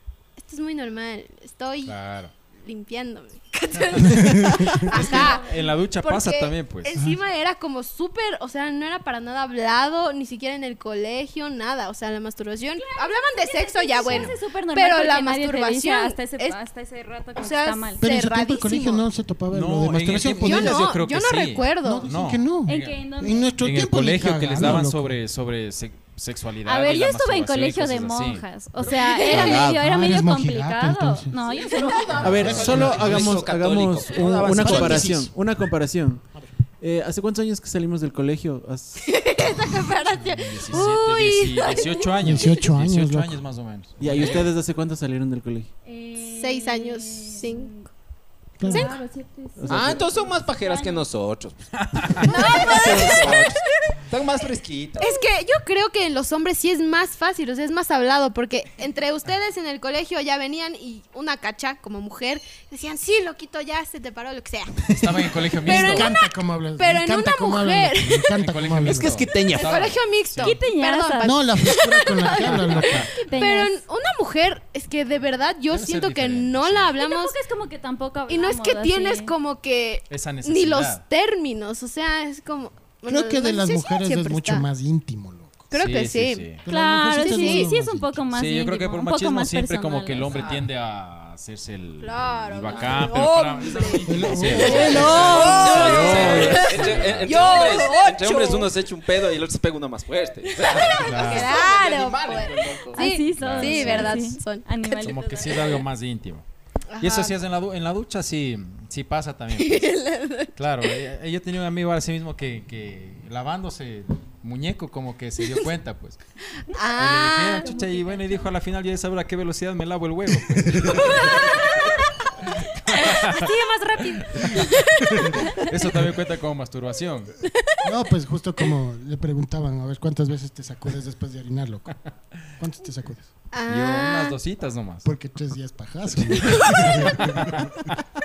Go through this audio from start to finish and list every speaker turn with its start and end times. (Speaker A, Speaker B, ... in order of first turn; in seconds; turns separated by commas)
Speaker A: 0.4-2.0, Speaker B: 1.9-2.3, Speaker A: 2.6-16.6, Speaker B: 3.9-4.2, Speaker C: 4.1-4.9, Speaker B: 4.8-6.9, Speaker D: 4.9-5.7, Speaker D: 12.8-18.0, Speaker A: 17.4-19.0, Speaker C: 18.0-20.8, Speaker B: 19.5-23.0, Speaker A: 20.4-22.1, Speaker C: 21.8-25.2, Speaker D: 22.7-23.6, Speaker B: 23.6-28.4, Speaker D: 26.6-32.1, Speaker A: 28.8-29.6, Speaker E: 29.3-29.8, Speaker C: 29.8-31.3, Speaker F: 31.5-35.1, Speaker A: 31.7-32.1, Speaker E: 32.2-36.2, Speaker B: 32.3-33.3, Speaker C: 32.5-33.2, Speaker C: 34.5-35.3, Speaker E: 36.8-39.0, Speaker A: 39.0-42.3, Speaker B: 40.3-44.5, Speaker C: 42.2-43.5, Speaker E: 44.0-45.7, Speaker D: 45.9-47.9, Speaker A: 46.2-47.7, Speaker C: 48.6-49.0, Speaker D: 48.6-51.0, Speaker A: 48.7-49.0, Speaker E: 49.6-50.0, Speaker F: 49.7-55.2, Speaker B: 51.8-52.3, Speaker D: 52.2-53.1, Speaker A: 52.2-53.7, Speaker A: 55.0-66.2, Speaker B: 64.9-66.1, Speaker C: 65.7-69.3, Speaker A: 66.8-68.3, Speaker B: 68.4-70.6, Speaker F: 68.9-69.8, Speaker A: 69.5-77.4, Speaker D: 70.4-71.4, Speaker C: 71.2-73.1, Speaker B: 72.3-73.1, Speaker D: 73.2-73.8, Speaker B: 75.7-76.9, Speaker D: 77.0-79.3, Speaker A: 78.3-84.7, Speaker B: 80.1-81.0, Speaker C: 83.1-85.7, Speaker A: 85.7-86.5, Speaker B: 85.8-86.6, Speaker C: 86.6-88.2, Speaker D: 86.7-90.3, Speaker A: 87.2-87.7, Speaker B: 88.3-97.7, Speaker F: 90.2-90.7, Speaker A: 92.0-98.7, Speaker F: 92.7-93.2, Speaker C: 94.1-96.0, Speaker D: 94.6-96.4, Speaker F: 95.2-103.1, Speaker A: 100.5-105.7, Speaker B: 100.9-101.5, Speaker D: 103.0-105.8, Speaker B: 103.3-104.3, Speaker B: 105.0-106.5, Speaker A: 106.9-107.4, Speaker B: 107.0-109.9, Speaker A: 109.6-110.5, Speaker B: 110.6-116.2, Speaker A: 116.7-117.8, Speaker B: 117.0-121.6, Speaker D: 117.7-118.5, Speaker C: 120.7-121.0, Speaker A: 121.1-121.8, Speaker B: 122.6-123.5, Speaker A: 122.9-125.7, Speaker C: 125.1-125.4, Speaker B: 125.2-127.3, Speaker C: 127.8-131.9, Speaker C: 132.6-133.3, Speaker A: 133.5-134.4, Speaker B: 133.7-135.1, Speaker C: 135.0-137.7, Speaker B: 136.3-138.0, Speaker A: 136.4-136.9